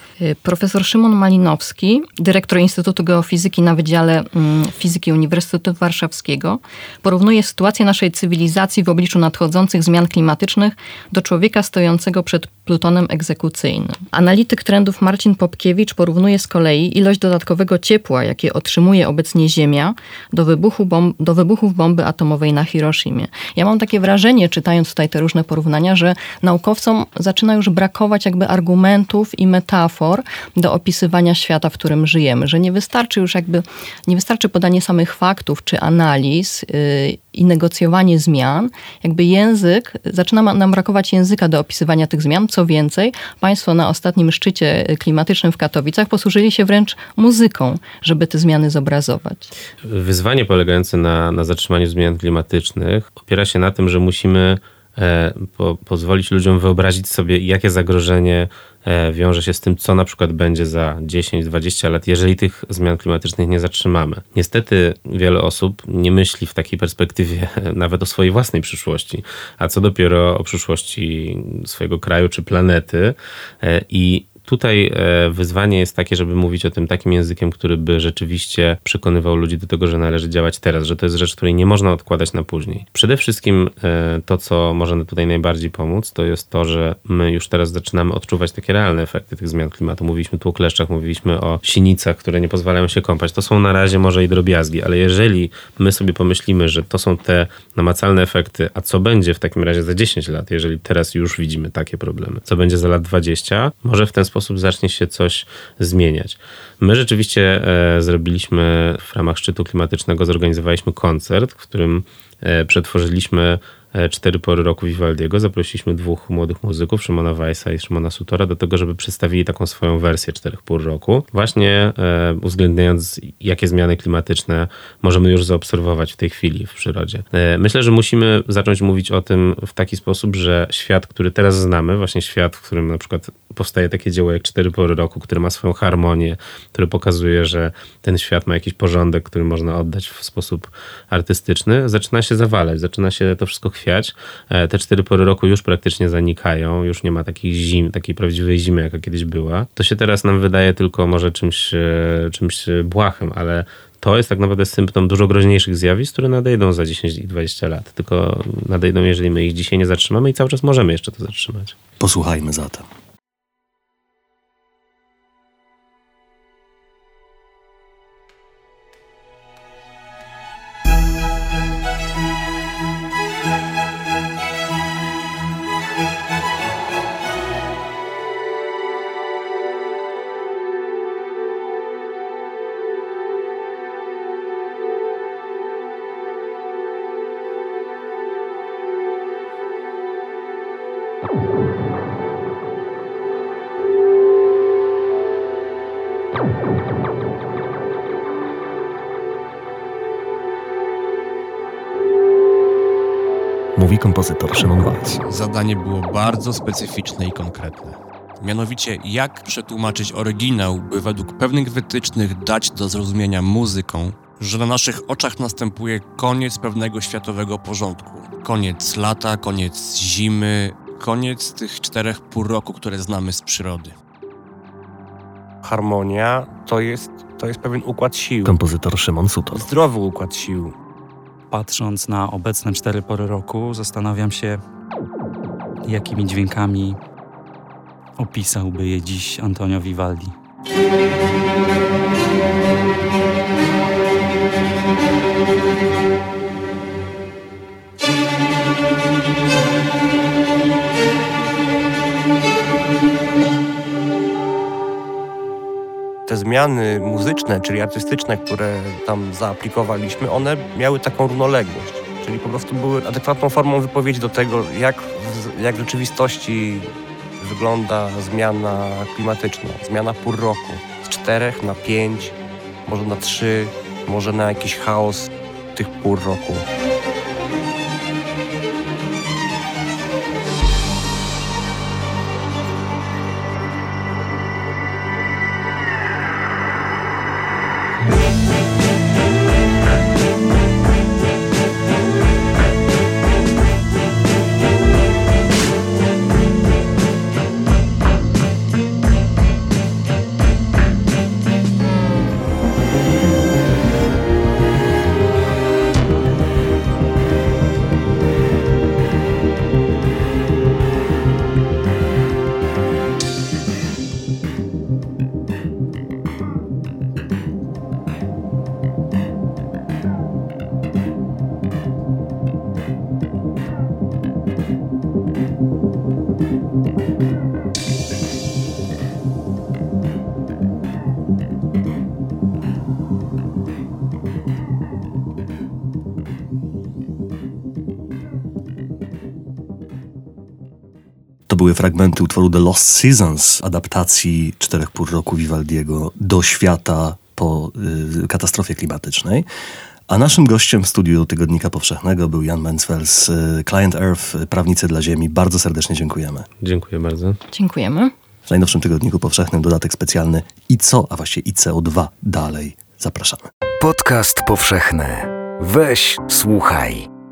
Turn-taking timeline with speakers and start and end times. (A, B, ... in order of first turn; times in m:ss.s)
0:00.2-0:49.5 A
0:49.8-2:41.8 B
2:42.0-2:42.8 C
3:23.8-3:25.2 C
3:25.2-3:44.0 D
3:45.6-3:48.6 E
3:48.4-3:49.6 C
3:49.5-3:50.6 E
3:51.5-3:54.6 F
3:55.8-3:57.0 F
3:58.2-4:00.3 F
4:16.2-4:32.3 E
4:32.8-4:36.6 E
5:41.5-5:49.4 C
5:50.1-5:56.5 C
5:56.6-5:57.4 B
5:57.5-5:58.1 A
5:58.5-6:03.4 C
6:03.8-6:07.1 G